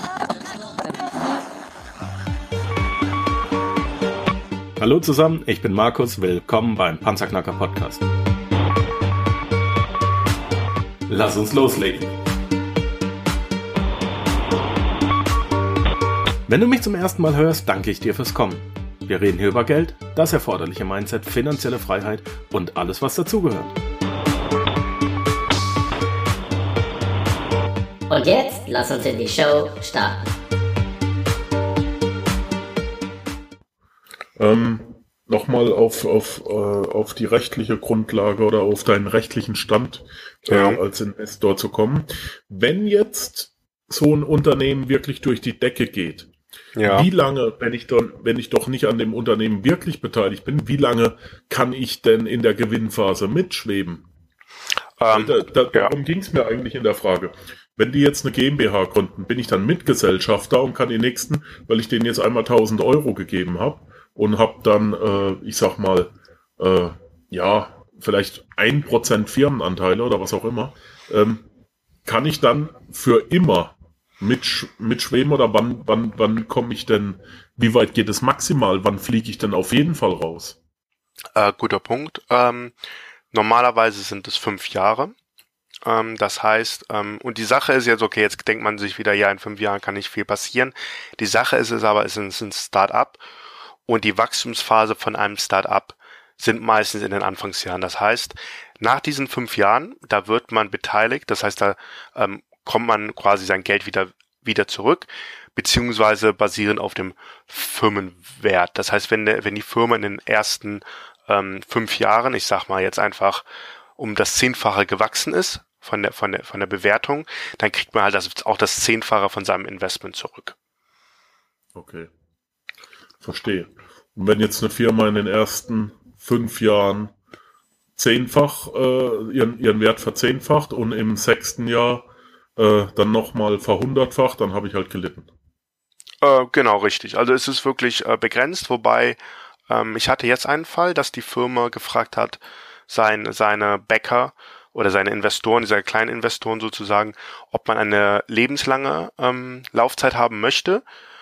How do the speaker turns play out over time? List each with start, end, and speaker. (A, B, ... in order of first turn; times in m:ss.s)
0:04.8-0:08.0 A
0:11.1-0:12.1 A
0:16.5-0:23.7 A
0:28.1-0:30.3 B
0:34.4-0:46.3 C
0:40.5-0:40.8 D
0:46.8-0:47.1 D
0:46.8-0:54.0 C
0:55.0-0:55.9 D
0:55.1-1:11.4 C
1:12.0-1:20.6 C
1:21.4-1:22.7 D
1:23.3-1:25.1 D
1:25.8-1:33.2 D
1:33.9-1:53.4 D
1:54.0-2:00.5 D
2:01.7-2:02.1 C
2:03.2-2:07.1 C
2:08.0-2:15.3 C
2:16.2-2:19.2 D
2:19.7-2:30.8 D